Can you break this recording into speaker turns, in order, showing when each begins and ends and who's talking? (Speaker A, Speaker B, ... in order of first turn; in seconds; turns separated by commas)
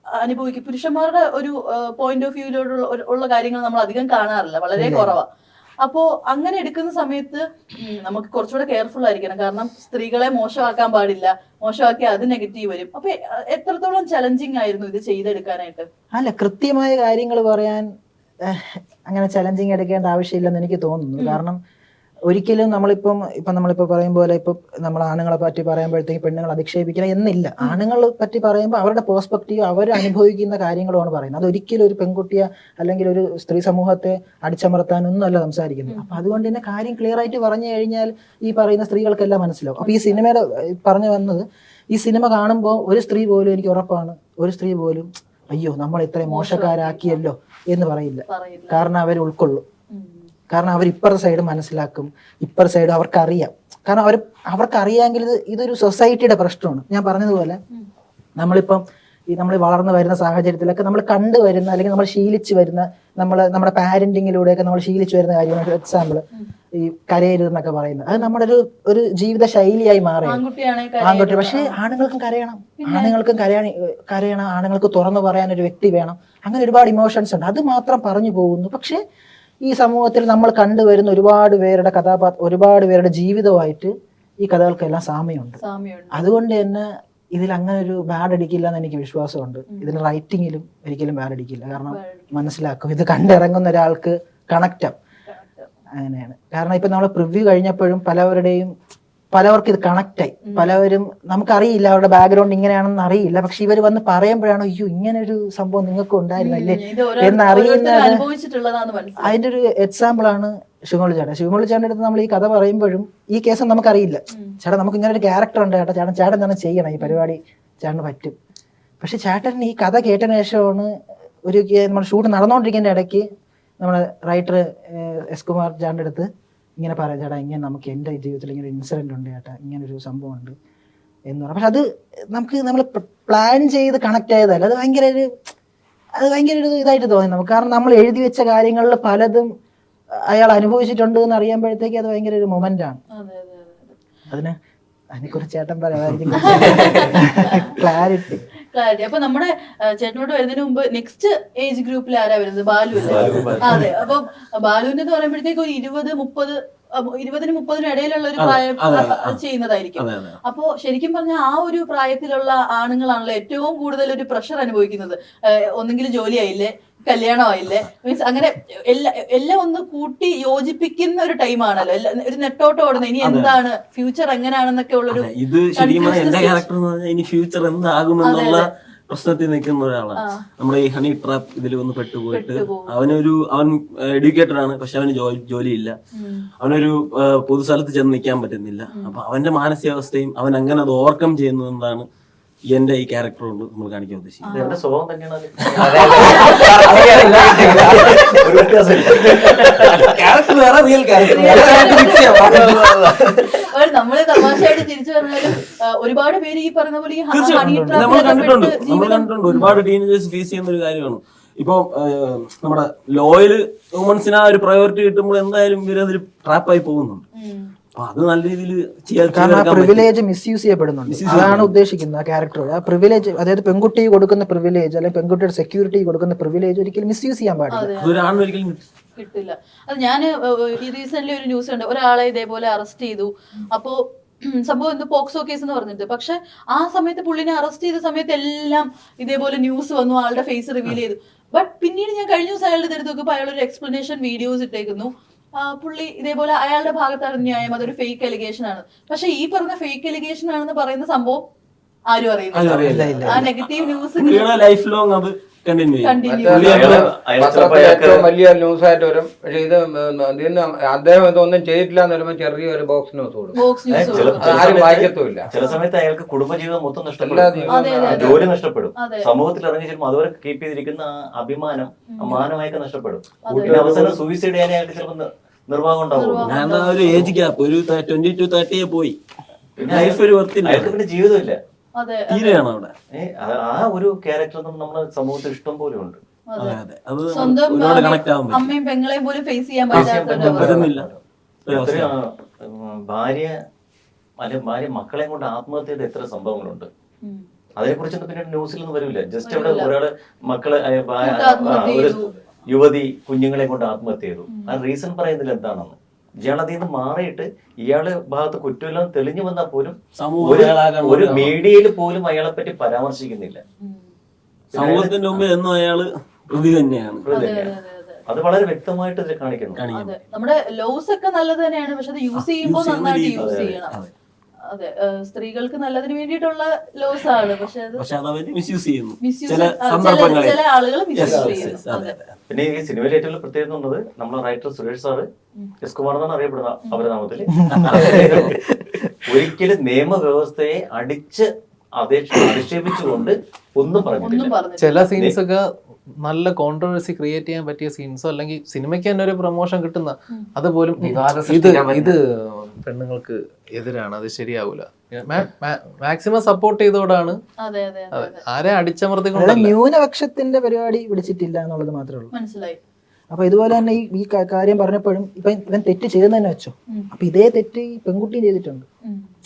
Speaker A: 0.2-5.2, Speaker B: 4.8-5.1, Speaker A: 5.8-15.9, Speaker B: 16.1-17.9, Speaker B: 18.5-21.6, Speaker B: 22.3-49.6, Speaker A: 35.9-36.3, Speaker A: 39.8-40.2, Speaker A: 46.3-47.2, Speaker A: 48.3-48.9, Speaker A: 49.9-50.3, Speaker B: 50.5-57.6, Speaker B: 58.4-66.2, Speaker B: 66.8-70.4, Speaker A: 70.2-71.7, Speaker B: 71.0-79.0, Speaker A: 72.8-73.1, Speaker B: 79.7-85.6, Speaker A: 85.6-86.2, Speaker B: 86.1-94.9, Speaker A: 91.9-92.4, Speaker A: 95.3-95.7, Speaker B: 96.0-98.7, Speaker B: 99.3-108.2, Speaker A: 106.4-109.3, Speaker B: 109.2-118.3, Speaker A: 114.3-114.6, Speaker B: 119.0-120.9, Speaker B: 121.5-123.3, Speaker B: 123.8-126.3, Speaker B: 126.8-130.6, Speaker B: 131.3-135.3, Speaker B: 136.2-139.5, Speaker B: 140.3-143.0, Speaker A: 143.2-144.0, Speaker B: 145.1-148.4, Speaker A: 146.4-147.8, Speaker A: 148.7-176.7, Speaker C: 153.0-154.0, Speaker D: 153.1-153.9, Speaker C: 158.4-159.4, Speaker C: 160.0-160.4, Speaker C: 173.2-173.6, Speaker C: 175.1-186.0, Speaker A: 178.2-178.6, Speaker A: 180.2-180.4, Speaker A: 182.3-182.9, Speaker A: 186.2-186.5, Speaker C: 186.6-192.1, Speaker A: 188.9-189.2, Speaker C: 192.7-194.5, Speaker A: 194.4-194.8, Speaker D: 194.5-200.1, Speaker C: 195.8-198.5, Speaker E: 195.8-198.2, Speaker A: 196.2-196.8, Speaker C: 199.1-203.4, Speaker E: 201.1-203.1, Speaker A: 201.3-202.8, Speaker A: 203.3-209.8, Speaker C: 207.3-217.2, Speaker B: 207.6-208.5, Speaker A: 217.4-217.7, Speaker C: 217.9-220.1, Speaker B: 219.3-227.9, Speaker C: 221.1-221.7, Speaker A: 227.7-228.3, Speaker C: 228.0-228.8, Speaker A: 229.2-251.4, Speaker A: 252.1-254.6, Speaker C: 252.5-253.5, Speaker B: 252.7-253.5, Speaker C: 254.1-257.1, Speaker A: 256.0-257.0, Speaker E: 256.2-263.6, Speaker D: 256.5-258.3, Speaker A: 263.5-264.6, Speaker D: 263.9-276.6, Speaker E: 264.3-265.5, Speaker E: 267.2-268.4, Speaker A: 267.7-268.5, Speaker A: 269.0-269.3, Speaker A: 272.1-272.5, Speaker A: 273.4-273.8, Speaker E: 273.6-274.2, Speaker A: 276.1-277.3, Speaker C: 276.4-279.2, Speaker C: 279.8-281.0, Speaker D: 279.8-281.6, Speaker A: 282.0-282.6, Speaker C: 282.3-282.9, Speaker D: 283.1-286.2, Speaker A: 286.5-290.9, Speaker C: 286.6-288.7, Speaker D: 289.9-293.5, Speaker C: 289.9-291.1, Speaker C: 291.7-292.1, Speaker D: 294.4-296.9, Speaker D: 297.8-313.6, Speaker A: 299.4-299.9, Speaker A: 301.2-302.3, Speaker A: 304.5-304.8, Speaker C: 310.2-311.6, Speaker A: 313.8-314.1, Speaker D: 314.7-315.5, Speaker C: 314.8-317.3, Speaker D: 317.3-317.7, Speaker A: 317.3-318.2, Speaker D: 318.3-319.8, Speaker C: 319.8-320.2, Speaker A: 319.9-324.0, Speaker C: 322.4-324.1, Speaker D: 323.4-323.7, Speaker A: 324.7-328.0, Speaker C: 328.0-330.6, Speaker A: 329.2-332.1, Speaker C: 331.2-332.4, Speaker D: 332.5-335.3, Speaker D: 335.8-338.6, Speaker B: 337.6-338.5, Speaker C: 337.7-338.5, Speaker D: 339.2-344.6, Speaker A: 344.2-345.1, Speaker F: 344.8-345.6, Speaker F: 346.2-357.4, Speaker E: 351.0-352.2, Speaker A: 357.6-358.4, Speaker F: 358.1-359.8, Speaker B: 359.3-362.3, Speaker A: 362.3-362.8, Speaker B: 363.3-368.9